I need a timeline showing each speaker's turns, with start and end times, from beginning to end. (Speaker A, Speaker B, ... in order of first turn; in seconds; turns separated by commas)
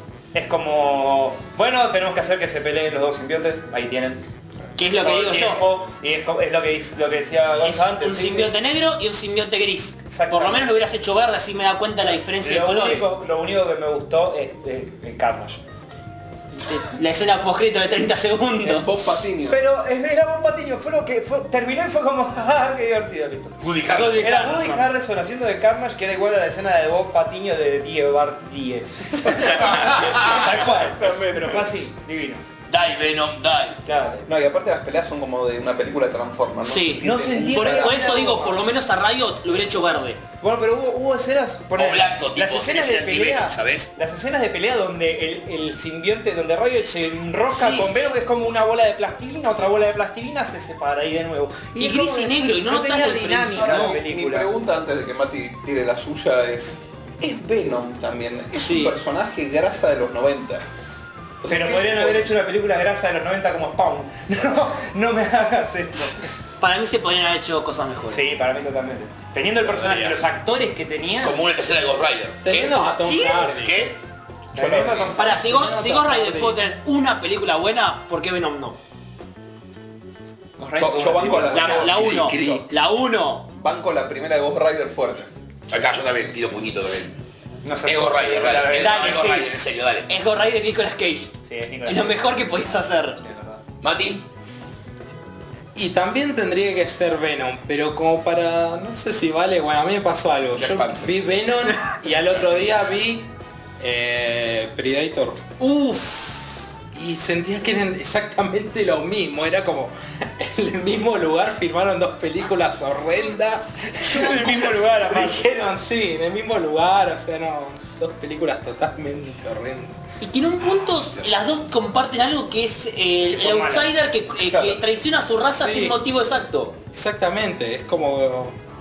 Speaker A: 0.3-4.2, Speaker B: 4.8-5.6, Speaker A: 4.9-8.5, Speaker B: 7.6-13.1, Speaker A: 10.1-10.7, Speaker A: 12.0-15.6, Speaker B: 16.5-18.9, Speaker C: 18.6-19.6, Speaker A: 19.5-32.4, Speaker D: 23.6-24.5, Speaker B: 23.9-24.8, Speaker C: 29.2-31.7, Speaker D: 29.8-30.6, Speaker D: 32.7-33.8, Speaker A: 33.8-34.2, Speaker C: 34.2-38.1, Speaker B: 36.6-40.2, Speaker A: 37.0-38.6, Speaker A: 40.4-54.5, Speaker D: 41.7-43.9, Speaker B: 47.5-48.1, Speaker B: 51.8-54.0, Speaker C: 53.5-60.6, Speaker B: 58.5-59.0, Speaker C: 61.4-62.3, Speaker A: 61.5-66.3, Speaker B: 66.6-68.2, Speaker A: 68.1-71.4, Speaker E: 69.6-70.3, Speaker D: 71.2-74.0, Speaker E: 72.4-73.9, Speaker A: 74.5-76.6, Speaker C: 74.5-75.4, Speaker B: 75.1-78.8, Speaker A: 80.6-82.2, Speaker C: 80.8-82.7, Speaker B: 81.5-83.5, Speaker D: 81.9-82.5, Speaker C: 83.5-85.3, Speaker D: 85.7-87.1, Speaker A: 87.6-89.4, Speaker D: 87.8-90.1, Speaker B: 88.7-89.5, Speaker B: 90.1-91.3, Speaker A: 91.5-93.6, Speaker B: 91.8-93.2, Speaker D: 93.8-94.2, Speaker E: 95.7-105.5, Speaker D: 100.5-101.1, Speaker B: 105.6-106.4, Speaker E: 106.9-120.0, Speaker A: 114.0-115.5, Speaker B: 120.2-126.8, Speaker A: 123.3-123.9, Speaker C: 124.5-124.8, Speaker E: 125.6-126.0, Speaker E: 126.9-128.5